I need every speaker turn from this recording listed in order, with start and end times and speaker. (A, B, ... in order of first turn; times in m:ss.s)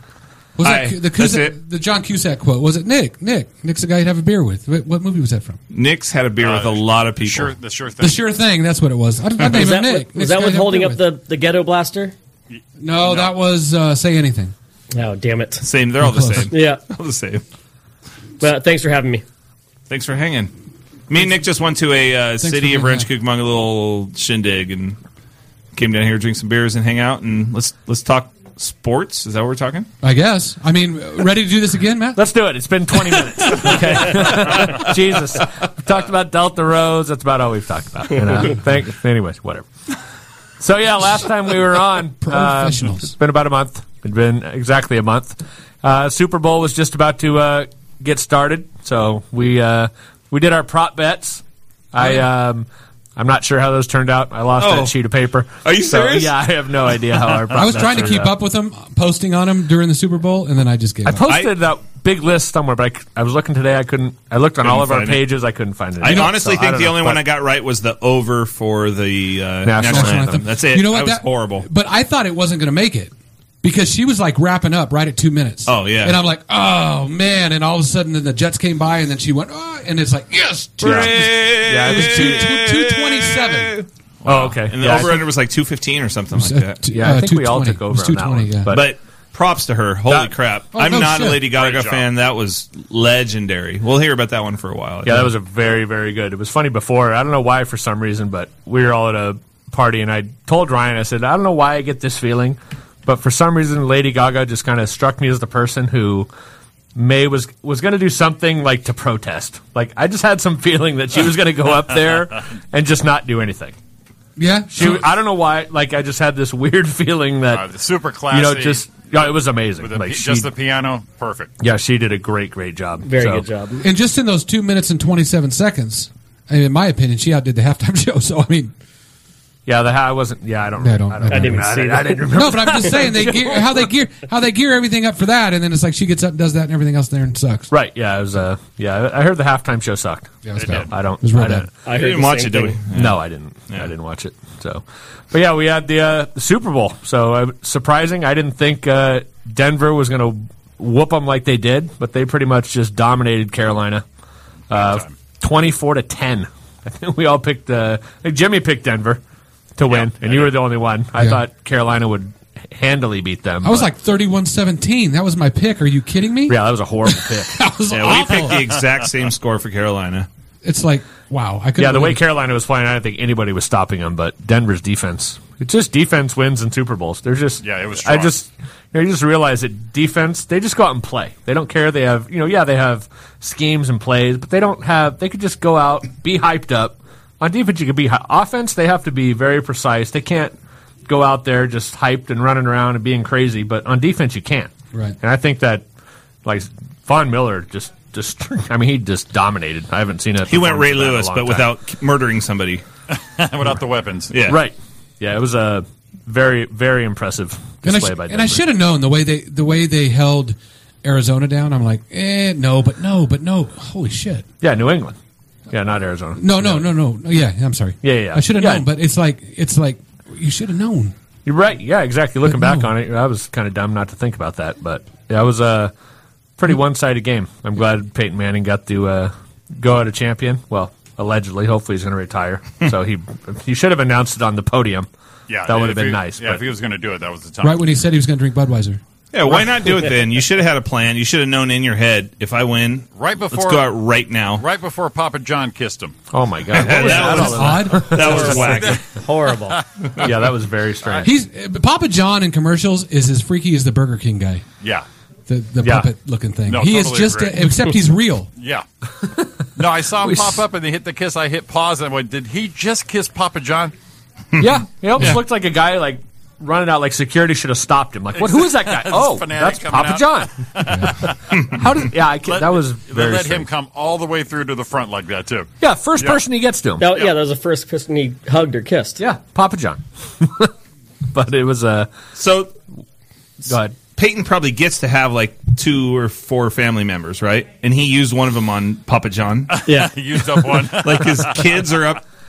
0:00.6-0:05.6 A
0:00.6-0:01.5 B
0:05.7-0:07.5 B
0:06.4-0:08.3 C
0:08.0-0:11.0 A
0:09.5-0:12.1 D
0:12.5-0:13.3 C
0:12.8-0:14.5 A
0:14.9-0:15.7 D
0:15.6-0:17.4 B
0:16.0-0:16.5 A
0:16.5-0:16.8 D
0:18.4-0:19.2 D
0:19.9-0:20.5 B
0:21.1-0:25.0 B
0:22.4-0:23.1 A
0:25.7-0:29.9 B
0:30.0-0:32.2 A
0:32.2-0:39.7 E
0:33.0-0:33.8 A
0:40.6-0:58.3 E
0:42.2-0:43.1 A
0:54.6-0:54.9 B
0:55.6-0:56.3 B
0:57.5-1:01.2 A
1:01.0-1:07.2 E
1:01.3-1:01.5 B
1:04.6-1:05.2 B
1:06.0-1:11.7 B
1:09.6-1:10.4 E
1:09.8-1:23.8 A
1:15.6-1:16.2 B
1:20.8-1:26.8 B
1:20.8-1:22.5 E
1:24.2-1:25.2 E
1:26.3-1:28.7 A
1:26.9-1:28.9 E
1:28.7-1:35.3 B
1:30.7-1:31.4 A
1:31.6-1:32.0 C
1:35.0-1:46.3 E
1:46.9-1:53.8 E
1:54.4-1:55.0 A
1:54.7-1:57.7 E
1:57.5-1:58.9 C
1:58.3-2:00.5 E
1:59.8-2:01.5 C
2:01.6-2:03.5 E
2:03.0-2:03.8 D
2:03.8-2:08.7 A
2:09.6-2:13.9 E
2:10.8-2:11.6 A
2:11.3-2:12.2 D
2:12.3-2:17.7 A
2:17.7-2:21.7 E
2:20.4-2:21.6 A
2:20.6-2:20.9 C
2:21.8-2:22.8 D
2:21.9-2:23.9 B
2:22.9-2:34.0 E
2:34.7-2:39.2 E
2:34.7-2:35.1 C
2:39.8-2:43.9 E
2:39.9-2:40.5 C
2:41.2-2:41.4 A
2:43.6-2:48.6 A
2:46.5-2:47.6 E
2:47.9-2:50.3 B
2:50.6-2:52.2 A
2:51.8-3:10.5 E
2:57.6-2:58.3 C
3:11.0-3:15.8 E
3:16.4-3:21.7 E
3:20.5-3:22.8 B
3:23.1-3:24.4 C
3:24.3-3:24.6 B
3:24.5-3:28.6 E
3:27.8-3:34.4 A
3:34.6-3:35.2 E
3:35.7-3:36.9 E
3:36.4-3:41.1 A
3:38.0-3:38.9 E
3:41.4-3:45.9 E
3:42.4-3:42.9 A
3:46.6-3:55.1 E
3:55.5-3:57.9 C
3:55.7-3:56.6 E
3:57.6-3:59.0 A
3:59.3-4:04.6 B
4:03.2-4:04.0 C
4:04.6-4:06.2 C
4:06.3-4:08.5 E
4:06.7-4:09.0 B
4:07.0-4:08.6 A
4:08.2-4:09.8 D
4:08.6-4:09.0 C
4:09.8-4:10.3 C
4:10.2-4:11.3 E
4:11.2-4:14.6 A
4:15.5-4:18.5 A
4:16.7-4:17.8 C
4:18.6-4:18.8 C
4:19.8-4:23.9 C
4:20.2-4:20.6 E
4:24.6-4:30.6 E
4:28.4-4:31.4 C
4:31.7-4:33.7 E
4:32.4-4:36.4 C
4:35.8-4:37.1 E
4:37.0-4:39.2 D
4:39.2-4:40.7 E
4:41.3-4:42.1 E
4:42.4-4:42.7 B
4:43.6-4:44.0 E
4:44.2-4:49.8 B
4:49.7-4:51.7 C
4:49.9-4:50.1 D
4:50.9-4:52.2 B